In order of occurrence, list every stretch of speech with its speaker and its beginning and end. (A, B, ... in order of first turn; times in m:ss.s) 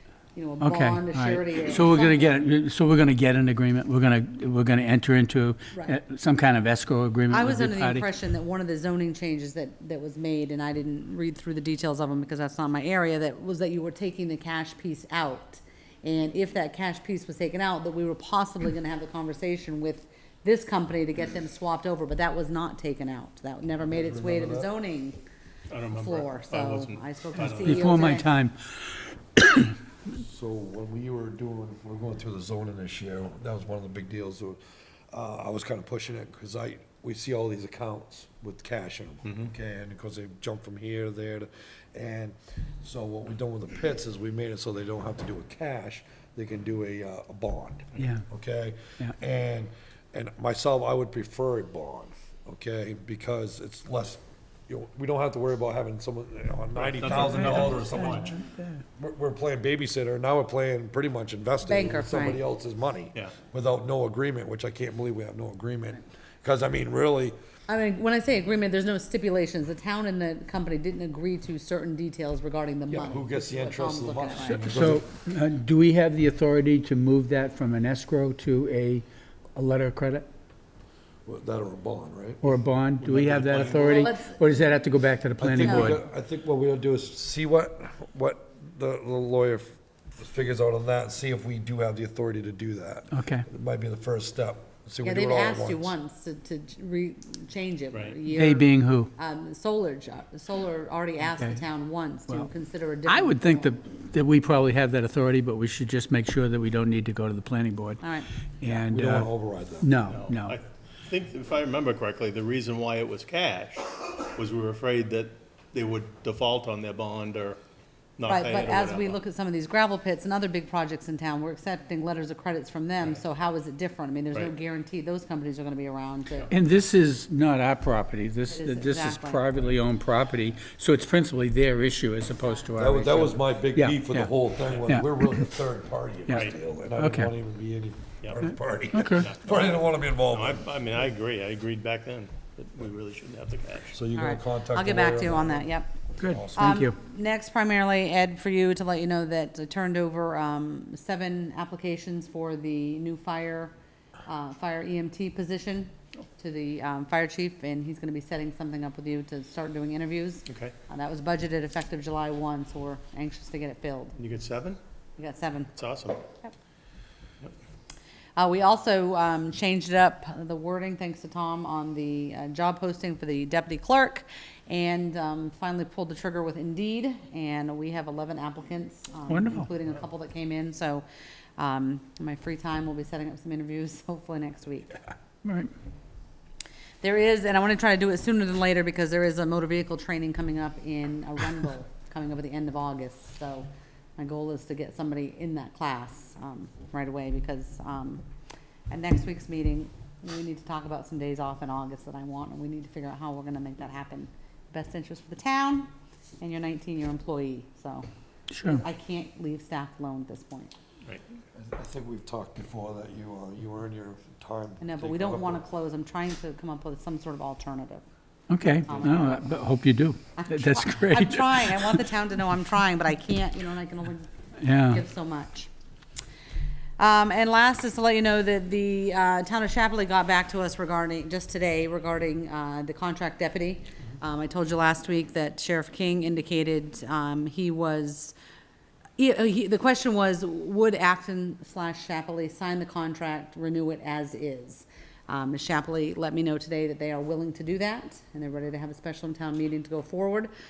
0:00.3-0:02.4 A
0:00.6-0:08.0 B
0:05.7-0:06.0 A
0:07.3-0:25.2 A
0:23.9-0:24.7 C
0:25.7-0:28.0 D
0:25.9-0:28.3 A
0:27.4-0:29.7 B
0:30.1-0:34.6 C
0:35.1-0:58.4 C
0:39.2-0:39.5 D
0:48.0-0:48.2 B
0:56.7-0:58.3 D
0:57.2-0:58.8 B
0:59.0-1:07.4 C
1:01.6-1:02.4 A
1:07.7-1:14.6 A
1:12.9-1:15.1 C
1:14.5-1:20.3 B
1:21.2-1:24.1 C
1:22.4-1:26.0 B
1:23.8-1:24.4 A
1:25.4-1:35.9 C
1:25.6-1:25.9 A
1:33.1-1:33.4 B
1:35.0-1:43.8 A
1:38.2-1:39.1 B
1:43.0-1:48.0 B
1:48.0-1:48.3 A
1:48.6-1:49.3 B
1:48.7-1:49.9 C
1:49.8-1:50.6 B
1:50.0-1:57.6 D
1:58.2-1:59.2 D
1:58.3-2:06.5 A
2:06.5-2:14.3 B
2:08.5-2:09.4 A
2:12.8-2:20.6 C
2:14.6-2:15.0 D
2:14.8-2:15.4 B
2:16.3-2:17.3 B
2:16.3-2:16.6 D
2:18.9-2:19.3 B
2:19.0-2:24.0 D
2:23.9-2:26.6 C
2:24.1-2:25.9 A
2:26.2-2:27.0 B
2:26.5-2:33.7 A
2:34.2-2:44.2 A
2:40.5-2:40.7 D
2:44.2-2:44.8 D
2:45.2-2:45.7 A
2:45.7-2:46.2 D
2:48.4-3:01.0 A
2:59.3-2:59.7 B
3:01.6-3:05.0 A
3:05.4-3:05.7 B
3:07.0-3:18.2 A
3:18.9-3:25.9 A
3:26.4-3:28.0 A
3:28.5-3:28.8 B
3:28.6-3:30.7 A
3:31.5-3:35.6 C
3:34.8-3:38.0 A
3:38.5-3:42.0 B
3:38.8-3:39.4 A
3:40.4-3:45.7 A
3:44.6-3:45.0 B
3:47.0-3:58.3 A
3:59.2-4:10.5 A